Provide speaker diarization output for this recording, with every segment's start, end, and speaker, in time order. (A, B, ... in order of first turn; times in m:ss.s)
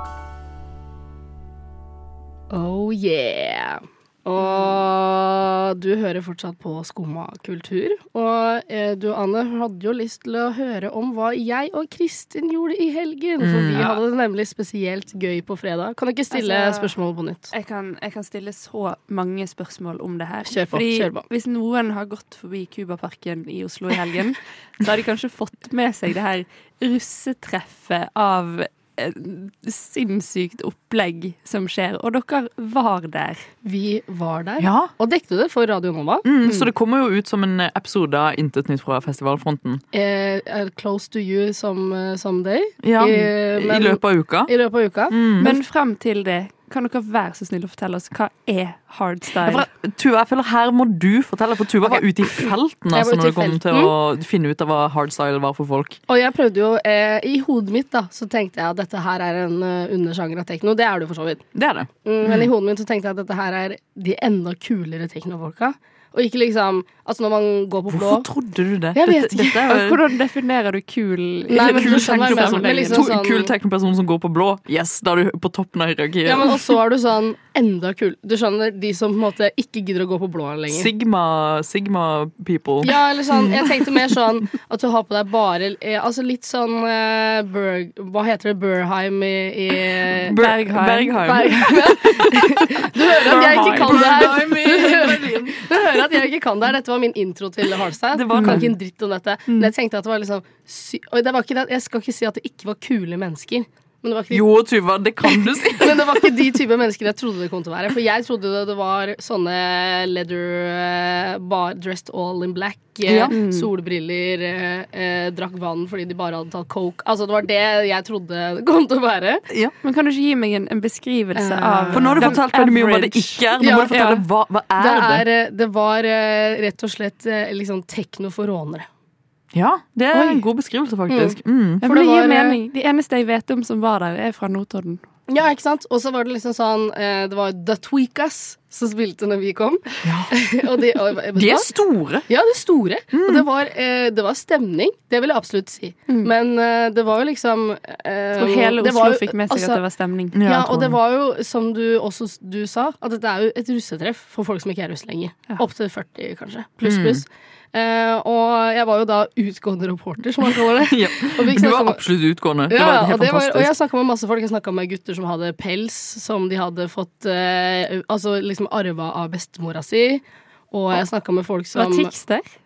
0:02.5-0:17.5 A
0:13.4-0:14.0 B
0:16.3-0:16.9 C
0:17.5-0:33.5 C
0:20.4-0:21.2 A
0:33.6-0:36.2 A
0:34.6-0:34.9 B
0:36.2-0:39.8 B
0:39.9-0:45.5 A
0:42.8-0:44.5 B
0:45.1-0:45.5 B
0:45.4-0:49.6 C
0:49.4-0:56.0 B
0:51.8-0:53.9 A
0:56.1-1:01.4 A
1:01.5-1:02.5 B
1:02.0-1:08.3 A
1:07.9-1:10.0 B
1:08.9-1:09.6 A
1:09.7-1:13.1 C
1:11.5-1:13.5 A
1:11.5-1:16.7 B
1:16.2-1:20.9 A
1:20.7-1:24.0 B
1:22.8-1:30.4 A
1:30.3-1:35.6 B
1:30.3-1:31.4 C
1:31.2-1:44.4 A
1:33.4-1:34.5 C
1:38.1-1:38.7 B
1:38.3-1:38.7 C
1:44.3-1:46.3 B
1:45.2-1:59.4 A
1:53.1-1:53.3 B
1:53.3-1:53.7 C
1:59.5-1:59.7 B
1:59.8-2:04.2 C
2:01.3-2:02.4 A
2:01.9-2:05.2 B
2:03.6-2:04.1 A
2:04.8-2:08.9 A
2:09.5-2:11.8 B
2:10.1-2:10.4 A
2:11.1-2:12.6 A
2:11.8-2:15.0 C
2:15.3-2:21.7 A
2:20.0-2:20.3 B
2:21.4-2:22.3 B
2:22.3-2:29.8 A
2:23.1-2:23.4 B
2:28.3-2:30.4 C
2:30.3-2:31.0 B
2:30.4-2:42.0 A
2:36.8-2:37.2 B
2:40.8-2:43.7 B
2:42.7-2:52.1 A
2:51.7-2:52.5 C